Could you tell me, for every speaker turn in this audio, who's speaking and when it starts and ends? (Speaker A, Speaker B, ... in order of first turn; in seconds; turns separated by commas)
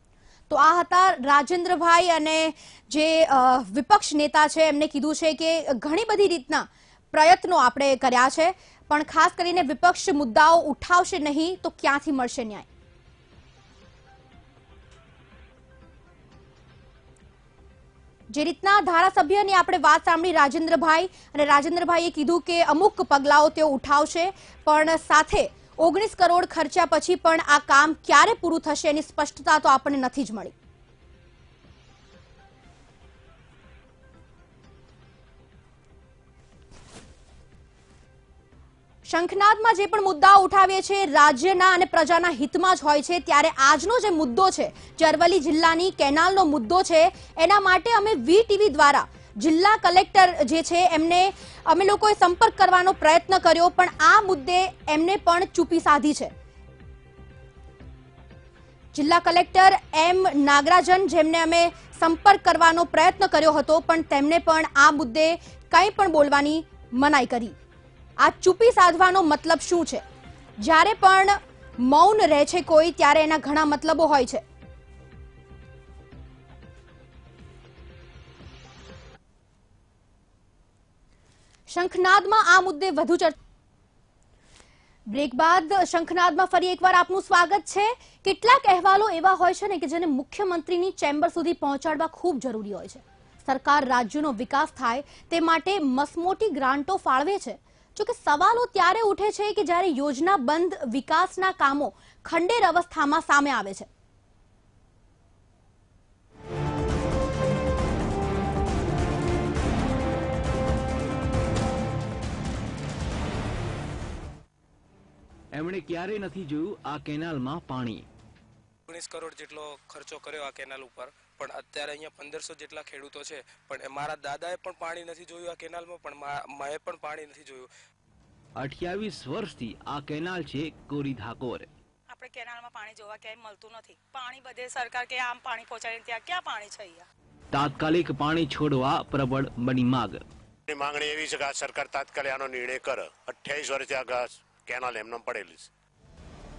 Speaker A: 0.5-12.7, Speaker A: 18.3-30.5, Speaker A: 39.1-56.3, Speaker A: 58.9-67.5, Speaker A: 68.2-70.0, Speaker A: 70.6-74.4, Speaker A: 81.7-83.3, Speaker A: 85.1-103.9, Speaker B: 115.5-118.0, Speaker C: 118.9-127.7, Speaker B: 128.6-131.7, Speaker D: 132.1-137.1, Speaker B: 137.5-140.2, Speaker E: 140.7-145.7